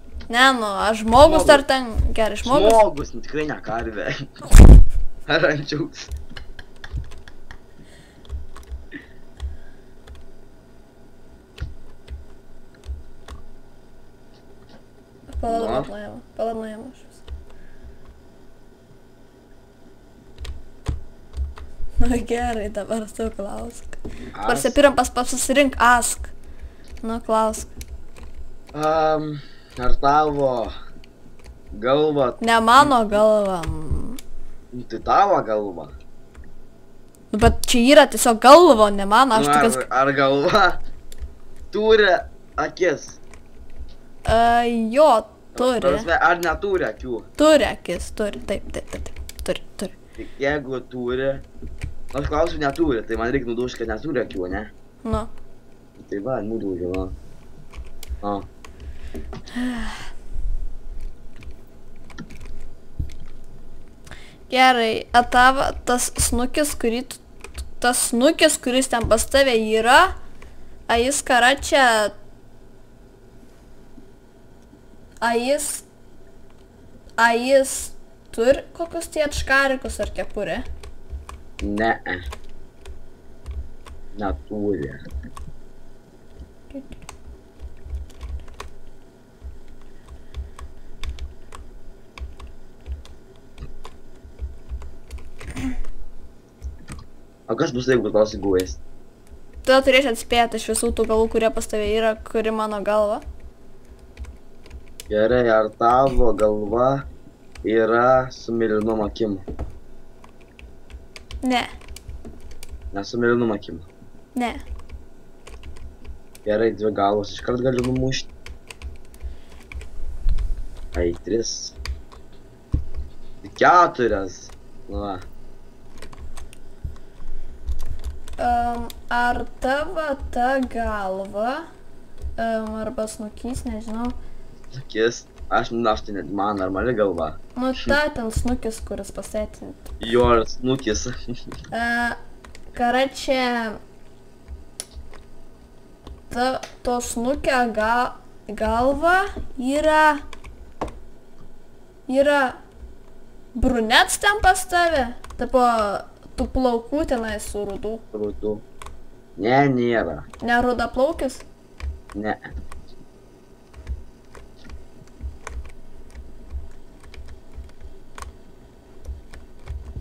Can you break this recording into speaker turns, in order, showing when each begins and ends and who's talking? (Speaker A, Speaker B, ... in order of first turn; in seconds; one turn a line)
Speaker A: 0.3-2.8
Speaker B: 1.2-1.6
Speaker B: 2.4-4.3
Speaker B: 5.3-6.1
Speaker A: 15.3-17.1
Speaker B: 15.5-15.9
Speaker A: 22.0-26.3
Speaker B: 24.4-24.8
Speaker A: 27.0-27.7
Speaker B: 28.7-30.7
Speaker B: 31.7-33.2
Speaker A: 32.4-34.2
Speaker B: 34.7-36.0
Speaker A: 37.3-39.9
Speaker B: 39.3-40.8
Speaker B: 41.7-43.2
Speaker A: 44.2-46.1
Speaker B: 45.5-47.3
Speaker A: 47.4-49.9
Speaker B: 50.2-51.5
Speaker B: 52.1-54.7
Speaker A: 55.0-55.3
Speaker B: 56.0-57.1
Speaker A: 59.5-60.0
Speaker A: 64.5-67.2
Speaker A: 67.8-70.1
Speaker A: 70.9-72.1
Speaker A: 75.2-75.9
Speaker A: 77.2-80.7
Speaker B: 81.6-82.2
Speaker B: 84.2-85.0
Speaker A: 86.7-87.0
Speaker B: 97.5-98.8
Speaker A: 99.7-103.2
Speaker B: 105.1-107.1
Speaker B: 107.6-109.4
Speaker A: 111.4-111.7
Speaker B: 112.9-113.9
Speaker A: 114.3-114.6
Speaker B: 116.5-118.3
Speaker B: 120.9-121.8
Speaker B: 123.4-125.3
Speaker A: 128.4-131.7
Speaker A: 132.4-134.2
Speaker B: 134.7-138.0
Speaker A: 137.6-139.9
Speaker B: 140.0-141.1
Speaker A: 141.7-142.2
Speaker A: 142.7-143.8
Speaker A: 146.3-150.2
Speaker A: 152.1-152.6
Speaker A: 153.5-158.0
Speaker B: 158.1-158.6
Speaker B: 159.4-160.3
Speaker A: 160.4-161.4
Speaker B: 162.2-162.4